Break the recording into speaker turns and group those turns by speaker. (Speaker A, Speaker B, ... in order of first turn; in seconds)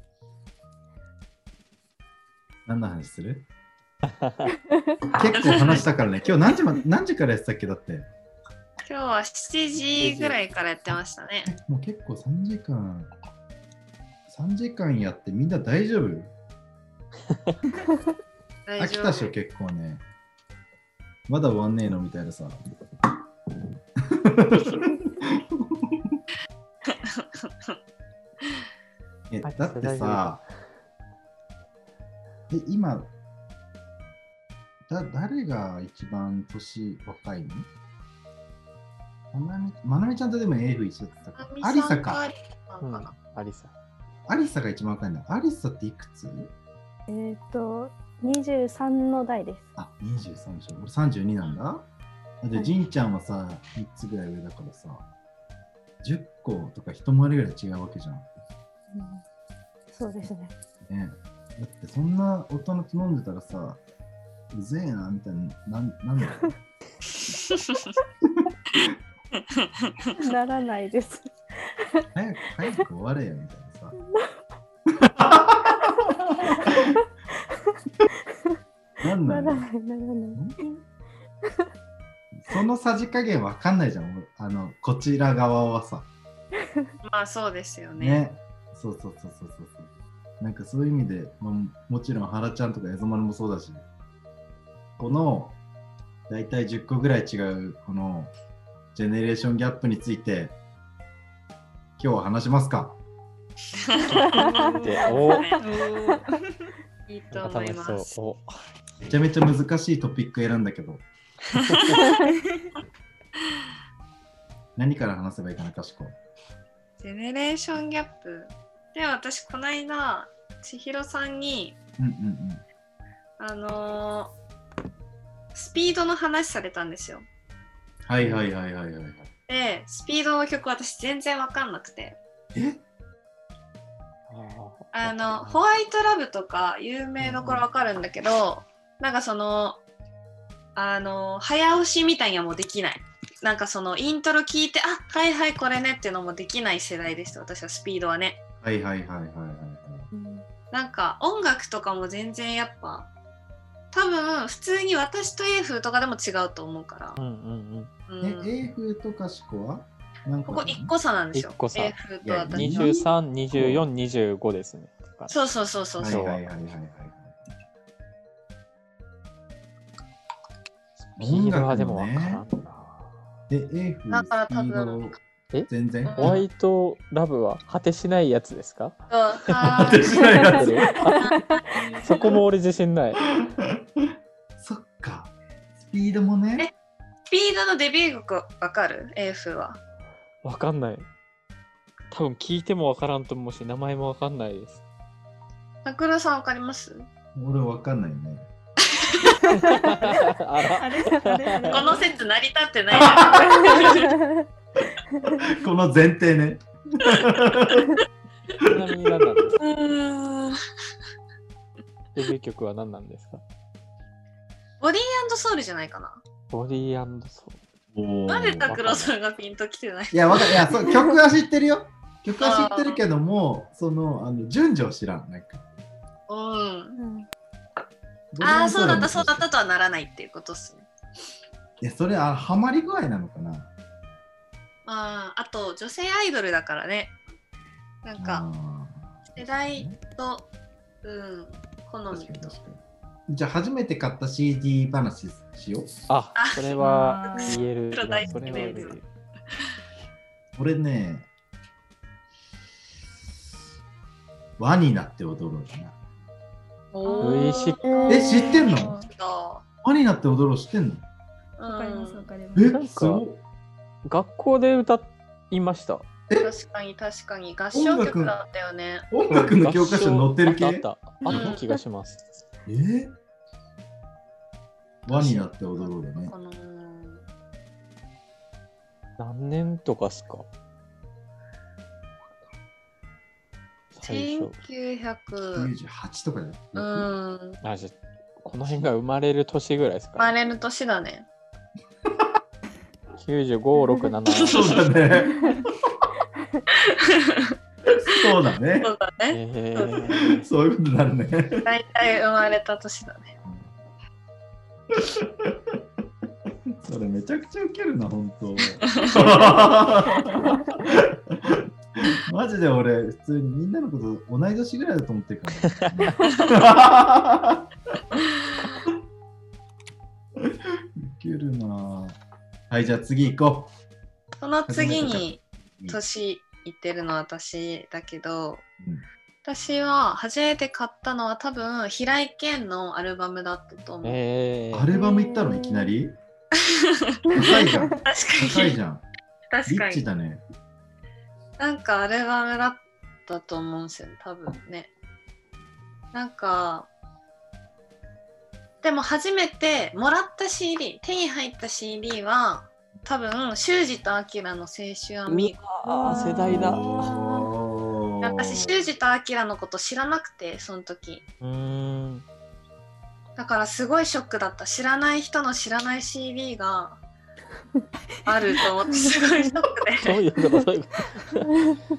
Speaker A: 2.6-3.5, 5.1-8.1, 11.4-13.1, 14.3-16.3, 18.8-20.0, 21.3-22.6, 24.0-26.2, 29.3-30.4, 32.5-33.1, 34.9-37.7, 39.3-42.2, 44.3-46.5, 49.8-51.8, 52.4-55.0, 56.0-58.3, 60.9-63.8, 64.5-66.5, 72.1-74.0, 75.0-76.9, 79.0-79.7, 80.3-80.6, 82.3-86.1, 88.0-93.8, 95.0-95.6, 96.3-98.3, 98.9-100.5, 102.0-103.0, 109.0-111.0, 114.8-116.2, 122.0-122.6, 128.1-129.3, 132.5-132.8, 148.6-150.1, 158.2-160.9, 162.2-163.8, 166.0-167.4, 171.2-172.4, 173.5-175.1, 175.7-176.4, 179.6-181.0, 183.3-184.0, 184.6-186.7, 197.3-198.5, 202.9-203.9, 205.4-208.0, 217.9-218.7, 220.1-225.6, 228.3-229.5, 231.8-233.7, 238.2-240.0, 242.1-245.9, 248.2-248.7, 250.6-251.3, 254.6-255.9, 258.1-258.9, 259.8-261.0, 262.5-263.4, 267.7-268.4, 269.1-271.6, 272.6-273.1, 275.1-276.3, 285.5-287.1, 294.4-295.7, 297.9-298.9, 300.4-301.7, 304.9-305.8, 306.8-317.7, 320.4-322.2, 322.7-323.7, 324.7-326.0, 334.7-336.2, 337.3-339.0, 339.7-340.4, 356.4-358.8
Speaker B: 4.2-4.5, 10.0-10.4, 29.4-30.4, 42.8-43.7, 104.8-105.5, 107.3-108.5, 111.7-112.0, 134.3-135.6, 137.2-137.6, 157.2-157.9, 161.3-161.9, 162.5-165.3, 166.0-166.4, 171.2-173.1, 175.5-179.0, 180.3-181.3, 181.9-183.2, 190.4-191.1, 192.1-194.8, 199.5-202.0, 208.6-209.6, 212.1-213.4, 216.5-217.6, 218.7-219.1, 246.1-249.1, 257.2-257.8, 262.6-263.2, 264.0-266.1, 269.3-272.2, 279.2-280.5, 283.9-284.6, 287.6-290.3, 293.2-294.9, 299.3-300.5, 315.6-316.1, 334.0-334.9, 355.3-357.1, 361.4-362.2, 370.0-371.7
Speaker C: 5.3-5.8, 8.8-11.5, 18.7-19.3, 26.9-27.8, 41.4-43.1, 67.3-67.9, 69.3-70.1, 87.0-88.2, 103.7-105.6, 107.1-108.1, 111.5-112.2, 117.0-121.8, 123.4-124.3, 125.5-127.2, 129.5-132.2, 134.9-139.8, 140.7-148.4, 150.7-153.1, 153.9-157.2, 158.1-158.5, 160.4-162.9, 165.3-166.2, 174.1-175.2, 176.0-176.4, 179.1-180.6, 181.2-182.3, 187.3-189.8, 195.8-197.1, 198.8-199.6, 201.7-204.2, 209.6-210.6, 214.8-216.2, 218.3-220.8, 222.4-223.0, 226.3-227.0, 228.4-230.9, 234.8-237.2, 238.0-238.4, 239.3-240.5, 241.0-242.5, 246.3-249.0, 256.9-259.6, 261.6-262.3, 266.4-269.1, 271.2-271.6, 275.1-277.2, 284.0-285.7, 286.7-287.6, 290.2-291.3, 294.3-294.8, 296.7-297.6, 298.8-300.0, 301.6-303.3, 308.9-309.4, 316.2-316.6, 324.4-328.6, 329.4-334.2, 336.5-338.8, 339.5-340.0, 341.6-344.9, 346.1-346.9, 348.8-355.6, 358.2-361.2, 363.4-367.0, 368.2-370.2
Speaker D: 47.1-49.7, 58.9-59.2, 59.9-60.5, 70.1-71.4, 76.4-76.9, 79.2-80.8, 104.1-105.2, 150.1-150.4, 181.2-181.6, 203.6-204.4, 227.0-227.3, 257.8-258.7, 334.9-335.9, 337.3-338.0, 355.9-357.5
Speaker E: 104.3-104.8, 105.6-106.7, 112.2-112.7, 200.7-202.1, 246.8-247.6, 257.0-258.3, 261.6-262.8